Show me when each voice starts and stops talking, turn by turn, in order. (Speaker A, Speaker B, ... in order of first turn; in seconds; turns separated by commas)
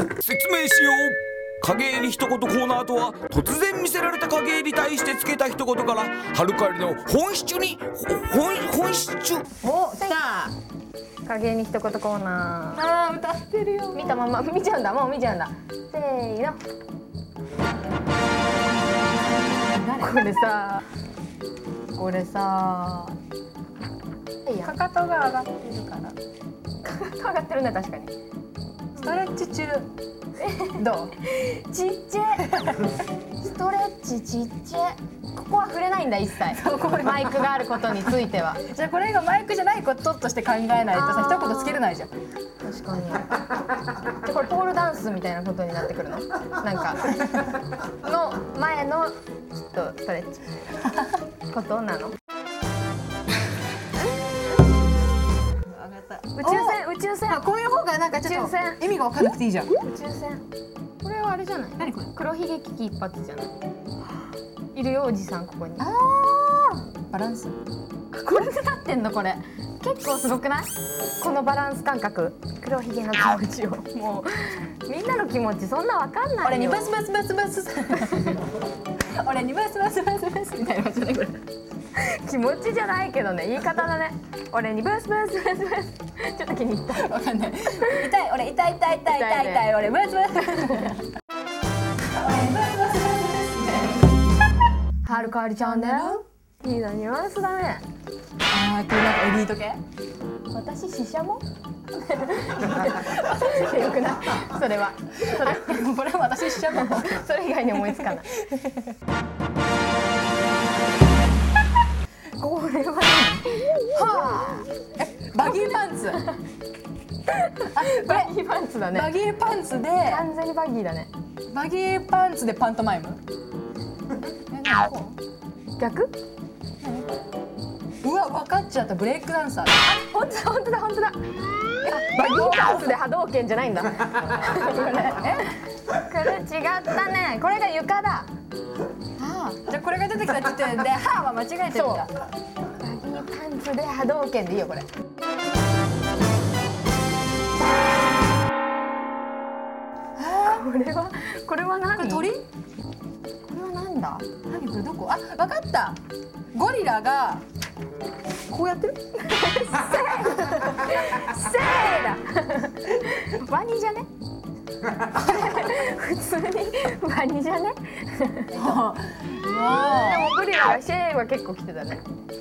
Speaker A: 0.2-9.5, Speaker B: 9.6-10.5, Speaker C: 10.0-10.2, Speaker C: 11.3-12.8, Speaker B: 12.8-14.2, Speaker C: 13.9-16.6, Speaker B: 18.8-20.2, Speaker C: 20.0-20.8, Speaker C: 21.9-23.2, Speaker C: 24.5-24.7, Speaker B: 24.6-26.2, Speaker C: 26.8-28.1, Speaker B: 28.9-29.9, Speaker C: 30.4-32.5, Speaker B: 30.8-31.1, Speaker B: 32.5-32.8, Speaker C: 33.4-38.6, Speaker B: 36.5-42.1, Speaker C: 40.9-41.9, Speaker C: 42.6-43.4, Speaker C: 44.2-50.5, Speaker C: 51.5-52.2, Speaker B: 55.7-59.7, Speaker C: 56.4-57.4, Speaker C: 58.2-58.8, Speaker C: 59.7-60.4, Speaker C: 61.0-63.5, Speaker B: 61.8-62.1, Speaker C: 64.7-65.9, Speaker B: 65.8-67.6, Speaker C: 68.1-77.0, Speaker B: 76.4-78.5, Speaker B: 79.2-81.4, Speaker C: 82.0-87.2, Speaker B: 87.0-91.0, Speaker C: 87.7-88.1, Speaker C: 89.1-89.7, Speaker B: 92.1-94.1, Speaker C: 95.0-97.8, Speaker B: 95.1-96.2, Speaker B: 98.5-99.8, Speaker C: 100.5-101.4, Speaker C: 102.0-105.8, Speaker B: 105.2-107.3, Speaker C: 106.6-108.7, Speaker B: 107.8-108.7, Speaker C: 112.3-114.7, Speaker B: 113.9-116.3, Speaker C: 117.3-119.1, Speaker B: 117.7-118.3, Speaker B: 118.9-120.2, Speaker C: 120.0-121.1, Speaker B: 121.5-123.2, Speaker B: 124.3-125.2, Speaker C: 125.8-126.1, Speaker B: 126.8-127.1, Speaker B: 128.0-129.8, Speaker C: 129.8-131.2, Speaker B: 131.9-132.9, Speaker C: 131.9-138.3, Speaker B: 134.7-135.5, Speaker B: 139.2-142.1, Speaker C: 141.7-142.1, Speaker C: 142.8-144.9, Speaker B: 150.2-150.7, Speaker C: 150.4-152.3, Speaker B: 152.0-152.5, Speaker C: 153.5-154.3, Speaker B: 154.4-156.0, Speaker B: 156.5-157.4, Speaker B: 158.5-159.0, Speaker C: 159.2-164.1, Speaker C: 165.1-168.8, Speaker B: 168.5-170.4, Speaker C: 169.4-172.0